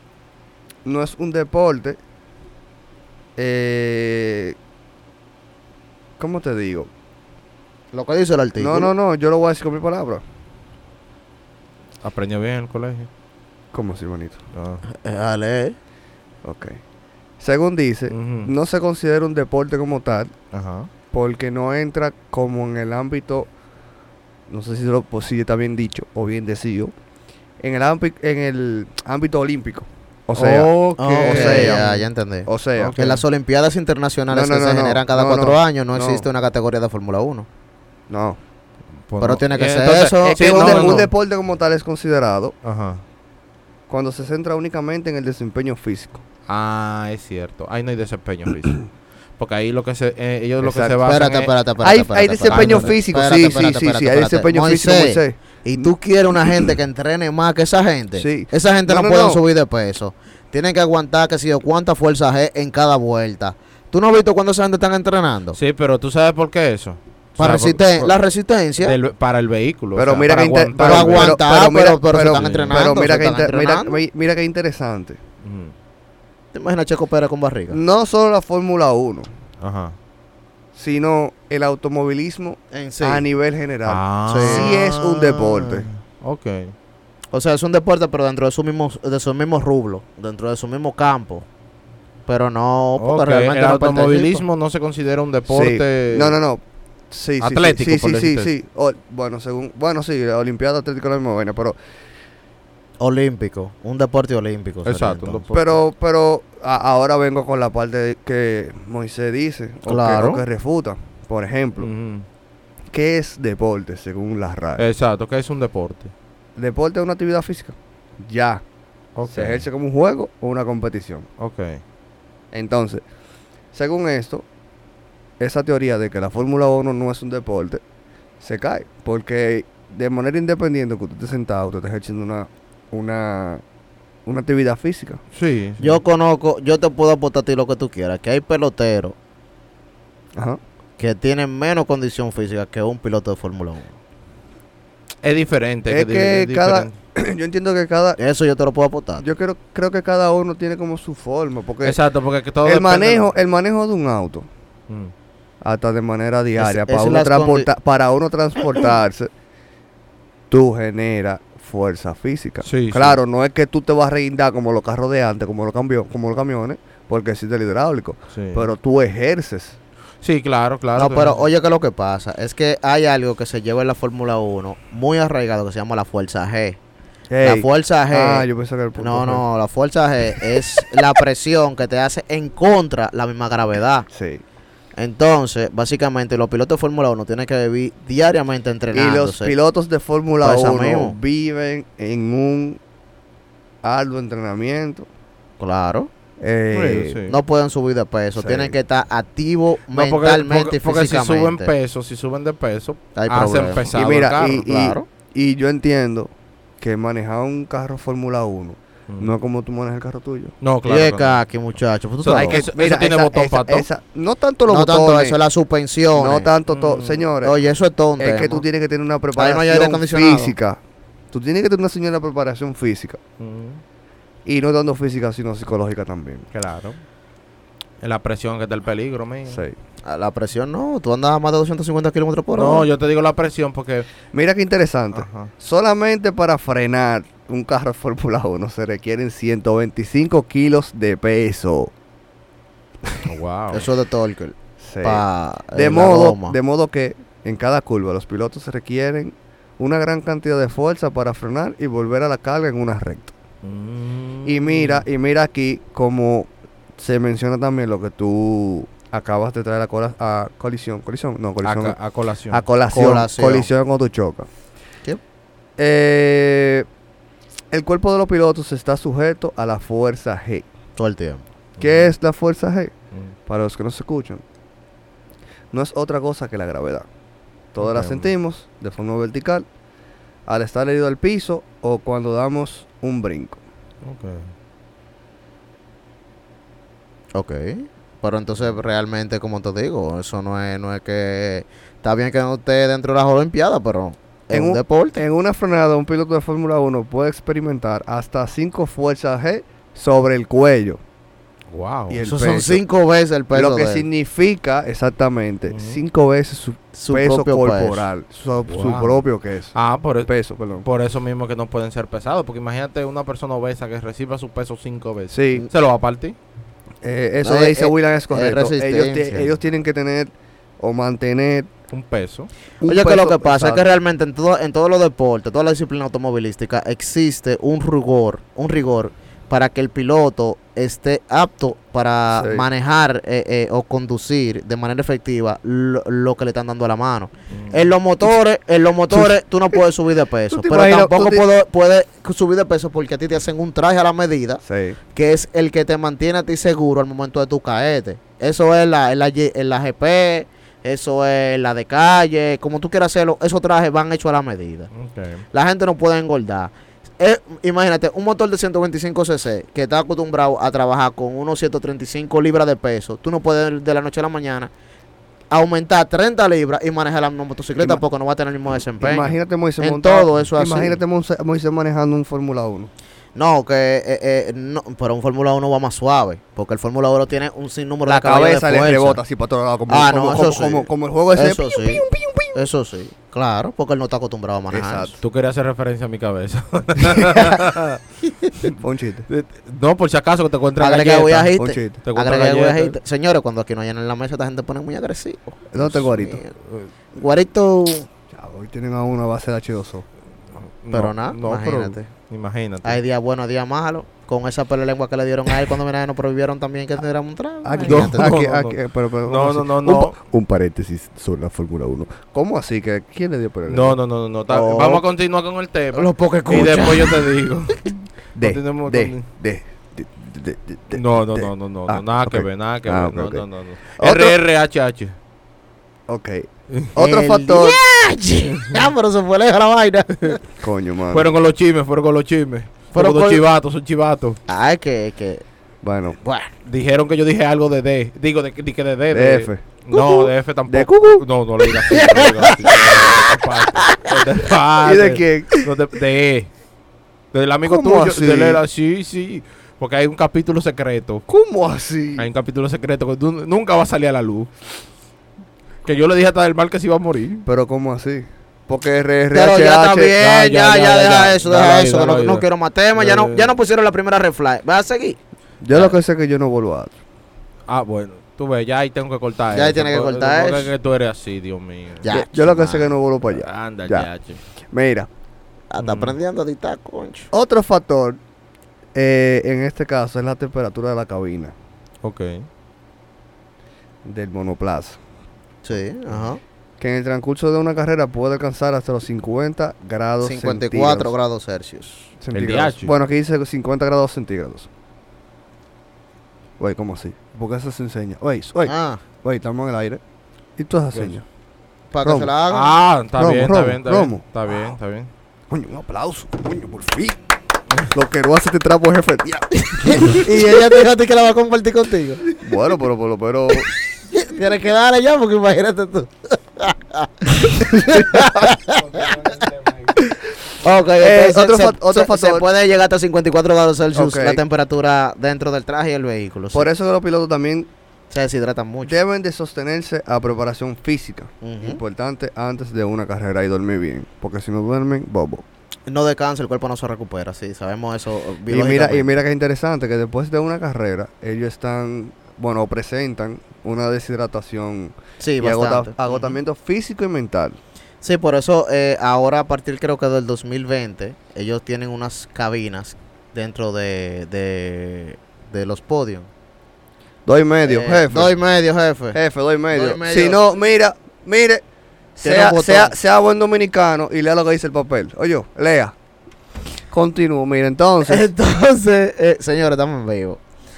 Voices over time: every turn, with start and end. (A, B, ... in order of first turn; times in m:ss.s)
0:00.8-0:02.0 A
0:03.4-0:04.6 A
0:06.2-0:06.9 A
0:07.9-0:08.9 B
0:08.6-0:10.2 A
0:12.0-0:13.1 C
0:13.7-0:14.4 A
0:14.5-0:14.8 C
0:14.8-0:15.8 B
0:16.4-0:16.8 A
0:17.4-0:20.3 A
0:18.1-0:18.5 C
0:20.5-0:20.9 C
0:21.1-0:23.5 A
0:24.5-0:26.9 A
0:27.6-0:30.7 A
0:30.3-0:32.1 C
0:31.0-0:37.5 B
0:31.2-0:31.9 A
0:32.5-0:33.0 A
0:32.8-0:33.2 C
0:34.3-0:36.2 A
0:38.1-0:38.4 A
0:39.1-0:41.1 C
0:39.2-0:41.0 B
0:40.4-0:42.5 A
0:42.6-0:43.0 C
0:43.9-0:46.2 A
0:46.5-0:48.9 C
0:49.4-0:51.5 C
0:50.6-0:51.0 A
0:51.0-1:05.6 B
0:51.8-0:55.9 A
0:52.5-0:52.9 C
0:58.2-0:59.4 A
1:05.5-1:08.1 C
1:07.4-1:08.9 B
1:08.8-1:11.4 C
1:09.9-1:15.2 A
1:10.8-1:14.0 B
1:12.2-1:12.9 C
1:15.4-1:15.7 C
1:16.5-1:17.8 B
1:17.7-1:19.3 A
1:19.6-1:20.0 C
1:20.7-1:25.9 A
1:22.7-1:23.2 B
1:23.8-1:26.7 C
1:24.3-1:24.7 B
1:27.3-1:31.5 B
1:32.3-1:34.4 B
1:33.0-1:36.4 C
1:35.5-1:41.8 A
1:37.4-1:38.5 C
1:43.0-1:45.8 B
1:44.8-1:45.6 C
1:45.5-1:51.9 A
1:49.8-1:50.4 B
1:51.8-1:52.2 C
1:52.9-1:54.8 A
1:54.8-1:56.1 C
1:56.6-1:58.6 A
1:59.2-1:59.6 C
1:59.3-2:01.3 A
2:01.4-2:01.8 C
2:02.5-2:03.0 A
2:03.7-2:04.4 A
2:05.4-2:07.8 A
2:08.4-2:13.6 A
2:14.2-2:15.2 A
2:15.3-2:16.0 C
2:15.8-2:19.2 B
2:21.0-2:23.9 B
2:25.2-2:26.9 C
2:25.9-2:28.2 A
2:28.2-2:29.2 B
2:29.2-2:32.0 A
2:31.8-2:33.3 C
2:32.6-2:34.5 A
2:35.6-2:39.3 A
2:36.6-2:37.7 B
2:40.5-2:49.8 A
2:42.6-2:43.2 C
2:48.3-2:48.7 C
2:50.2-2:51.4 C
2:51.0-2:56.8 B
2:57.3-2:59.4 A
2:57.4-3:04.1 B
3:04.1-3:04.4 A
3:05.0-3:09.5 B
3:08.9-3:12.8 A
3:10.4-3:11.1 B
3:13.8-3:15.1 A
3:15.6-3:16.1 B
3:16.4-3:17.2 A
3:16.7-3:17.4 C
3:17.3-3:21.7 B
3:18.4-3:18.8 A
3:19.9-3:24.6 C
3:23.1-3:25.0 B
3:23.9-3:30.5 A
3:30.6-3:31.4 C
3:30.8-3:32.6 B
3:32.2-3:33.9 C
3:32.3-3:35.4 A
3:34.7-3:36.5 B
3:36.1-3:37.5 A
3:36.7-3:37.2 C
3:37.4-3:38.6 B
3:38.2-3:40.8 A
3:39.4-3:40.5 B
3:41.3-3:43.2 A
3:43.4-3:43.8 C
3:44.4-3:46.4 A
3:46.5-3:47.0 C
3:48.0-3:49.6 C
3:49.5-3:49.8 A
3:50.0-3:52.9 B
3:52.5-3:54.1 C
3:54.3-4:01.9 A
3:55.1-3:55.5 C
4:03.0-4:03.3 A
4:03.2-4:03.9 C
4:03.7-4:06.6 B
4:04.8-4:13.3 A
4:13.6-4:15.0 C
4:14.4-4:22.0 A
4:21.6-4:22.6 C
4:22.5-4:24.5 A
4:22.9-4:23.7 B
4:25.8-4:26.9 A
4:27.7-4:30.6 A
4:31.0-4:31.4 B
4:31.8-4:32.1 C
4:31.8-4:32.9 A
4:33.5-4:34.4 A
4:35.7-4:37.1 A
4:37.7-4:39.6 A
4:37.8-4:38.3 C
4:40.4-4:43.6 A
4:44.0-4:44.5 C
4:47.3-4:55.2 B
4:54.5-5:01.0 A
5:01.7-5:02.2 C
5:02.1-5:02.8 A
5:02.2-5:04.0 B
5:03.5-5:10.8 A
5:05.7-5:06.0 C
5:07.0-5:08.0 B
5:08.7-5:16.4 C
5:15.3-5:15.6 A
5:17.0-5:21.7 A
5:17.4-5:19.5 B
5:21.9-5:22.5 C
5:22.8-5:23.8 A
5:22.8-5:44.6 B
5:32.3-5:32.6 A
5:37.5-5:37.8 C
5:40.5-5:41.4 A
5:44.6-5:45.0 A
5:45.1-5:54.9 B
5:54.9-5:55.4 C
5:55.5-6:04.7 B
6:05.5-6:11.0 B
6:07.8-6:08.0 A
6:09.0-6:12.9 A
6:13.4-6:19.2 B
6:18.1-6:22.6 A
6:19.9-6:25.1 B
6:24.7-6:25.2 A
6:25.2-6:28.0 C
6:27.3-6:27.6 B
6:28.2-6:28.6 B
6:28.7-6:29.3 A
6:29.3-6:33.0 C
6:30.8-6:36.5 B
6:31.6-6:32.0 A
6:35.7-6:36.4 A
6:37.1-6:38.1 B
6:38.3-6:40.0 A
6:40.8-6:43.0 C
6:40.9-6:42.1 B
6:42.8-6:48.4 B
6:47.6-6:54.0 A
6:47.8-6:50.2 C
6:53.7-6:59.2 C
6:54.5-6:55.0 A
6:55.9-6:57.3 B
6:58.4-7:03.4 A
7:00.9-7:05.2 C
7:04.0-7:04.4 A
7:06.1-7:07.8 A
7:07.0-7:10.4 B
7:10.6-7:11.3 A
7:11.1-7:14.4 C
7:12.9-7:13.4 B
7:14.5-7:15.4 B
7:15.8-7:16.2 A
7:16.2-7:16.5 B
7:16.6-7:26.5 C
7:19.1-7:19.6 A
7:19.9-7:20.3 B
7:20.7-7:21.2 A
7:21.9-7:24.2 B
7:24.8-7:25.7 A
7:27.3-7:31.2 C
7:27.6-7:28.6 A
7:31.3-7:32.3 A
7:32.2-7:34.5 C
7:35.8-7:37.4 C
7:37.4-7:40.2 A
7:39.3-7:45.2 B
7:40.2-7:43.5 C
7:45.6-7:46.9 A
7:45.7-7:46.0 C
7:47.7-7:52.1 C
7:49.5-7:50.7 B
7:52.0-7:52.9 B
7:52.1-7:54.1 A
7:53.2-7:54.4 C
7:54.7-7:55.1 A
7:55.7-7:57.3 B
7:55.8-7:56.2 C
7:57.3-7:58.2 A
7:58.9-8:01.5 A
8:02.0-8:02.5 C
8:04.0-8:05.0 A
8:05.6-8:06.4 B
8:06.8-8:11.1 A
8:10.2-8:12.1 B
8:12.2-8:14.7 A
8:12.3-8:12.9 C
8:16.6-8:20.0 A
8:18.6-8:19.0 B
8:20.6-8:21.2 A
8:21.9-8:22.7 B
8:22.0-8:22.3 A
8:22.5-8:25.1 C
8:23.2-8:24.2 A
8:25.5-8:27.2 A
8:27.9-8:30.3 A
8:29.7-8:32.2 B
8:32.4-8:33.7 A
8:34.0-8:46.7 B
8:37.7-8:38.3 A
8:41.0-8:42.4 A
8:43.9-8:44.4 A
8:46.5-8:47.7 A
8:48.1-8:49.0 B
8:48.8-8:55.4 A
8:51.4-8:51.8 B
8:55.9-8:59.1 B
8:58.5-9:07.6 A
9:05.2-9:06.3 B
9:08.0-9:16.3 B
9:17.2-9:18.4 A
9:17.6-9:19.2 B
9:19.1-9:21.6 A
9:19.7-9:20.4 B
9:22.2-9:25.9 A
9:22.2-9:22.9 B
9:26.9-9:28.3 A
9:28.0-9:30.4 B